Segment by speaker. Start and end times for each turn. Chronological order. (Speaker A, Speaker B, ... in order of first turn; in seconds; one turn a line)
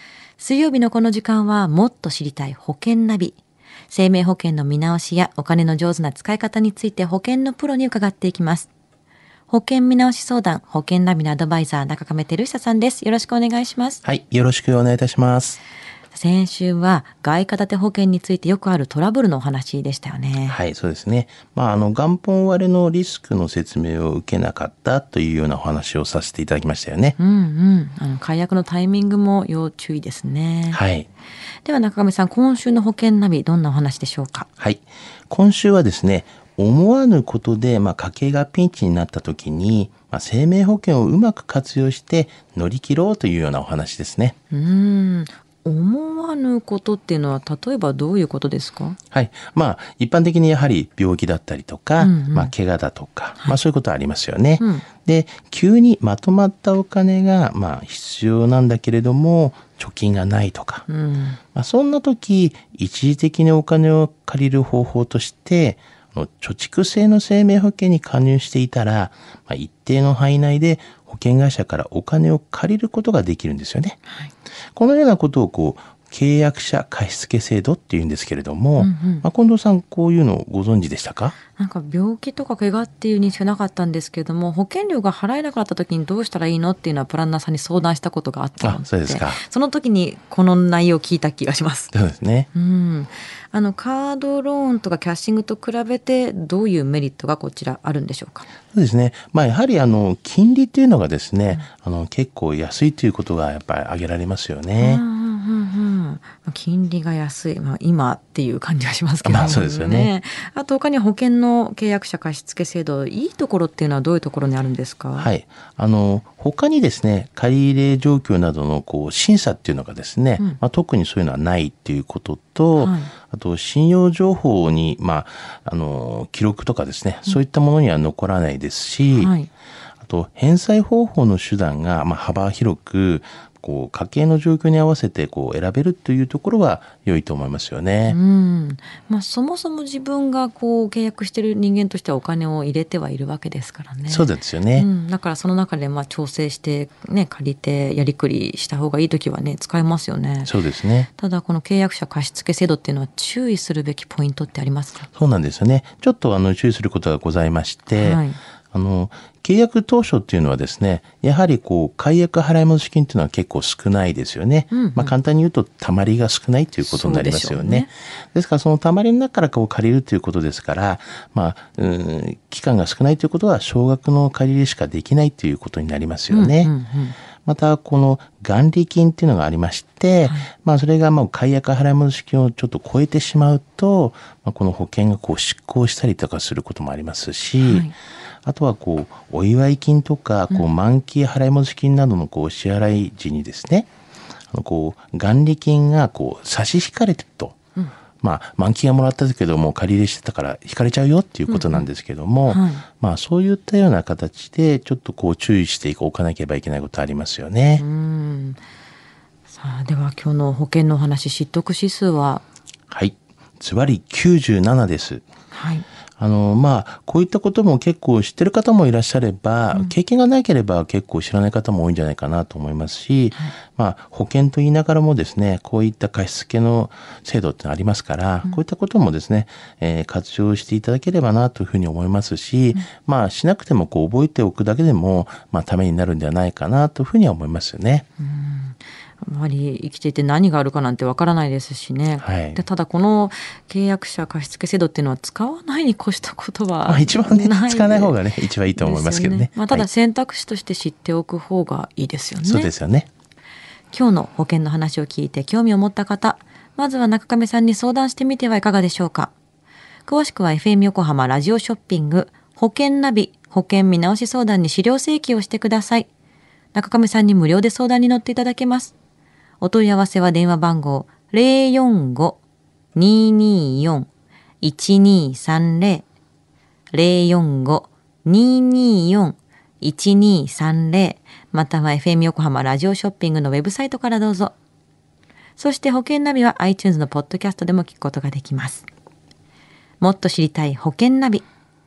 Speaker A: 0.4-3.4
Speaker A: 3.9-8.7
Speaker A: 9.5-14.0
Speaker B: 14.0-15.6
Speaker A: 16.1-20.6
Speaker B: 20.5-27.2
Speaker A: 27.2-30.8
Speaker B: 30.7-31.1
Speaker A: 31.6-34.5
Speaker B: 34.6-44.4
Speaker A: 44.5-49.0
Speaker B: 49.1-60.9
Speaker A: 52.0-52.5
Speaker A: 54.6-54.9
Speaker A: 60.9-61.4
Speaker B: 61.5-74.0
Speaker B: 74.8-81.4
Speaker A: 78.8-79.3
Speaker A: 81.5-91.9
Speaker B: 88.6-89.4
Speaker B: 91.9-92.5
Speaker A: 92.5-98.5
Speaker B: 98.7-105.0
Speaker A: 104.8-115.3
Speaker B: 109.2-110.1
Speaker B: 115.2-129.3
Speaker A: 122.8-123.1
Speaker A: 129.1-129.5
Speaker B: 130.0-138.2
Speaker A: 138.1-150.5
Speaker B: 144.1-144.9
Speaker B: 150.4-151.1
Speaker A: 151.1-155.1
Speaker B: 155.1-158.2
Speaker A: 157.9-158.4
Speaker B: 158.7-176.7
Speaker A: 164.7-165.1
Speaker A: 166.8-167.9
Speaker A: 176.3-177.2
Speaker B: 177.4-187.9
Speaker A: 180.2-180.5
Speaker A: 187.6-187.9
Speaker B: 188.4-193.9
Speaker B: 194.5-197.6
Speaker B: 198.2-207.8
Speaker A: 201.5-201.9
Speaker A: 202.5-202.8
Speaker A: 207.8-208.6
Speaker A: 209.5-212.4
Speaker B: 212.9-215.2
Speaker A: 215.5-215.8
Speaker B: 216.2-238.1
Speaker A: 238.2-248.2
Speaker B: 242.2-242.6
Speaker B: 246.9-249.9
Speaker A: 248.8-252.7
Speaker B: 252.4-253.1
Speaker A: 253.9-259.3
Speaker A: 260.1-266.1
Speaker A: 266.7-268.9
Speaker A: 269.6-272.4
Speaker A: 272.9-274.1
Speaker A: 274.6-276.1
Speaker A: 276.9-284.5
Speaker A: 285.6-288.9
Speaker A: 290.0-291.5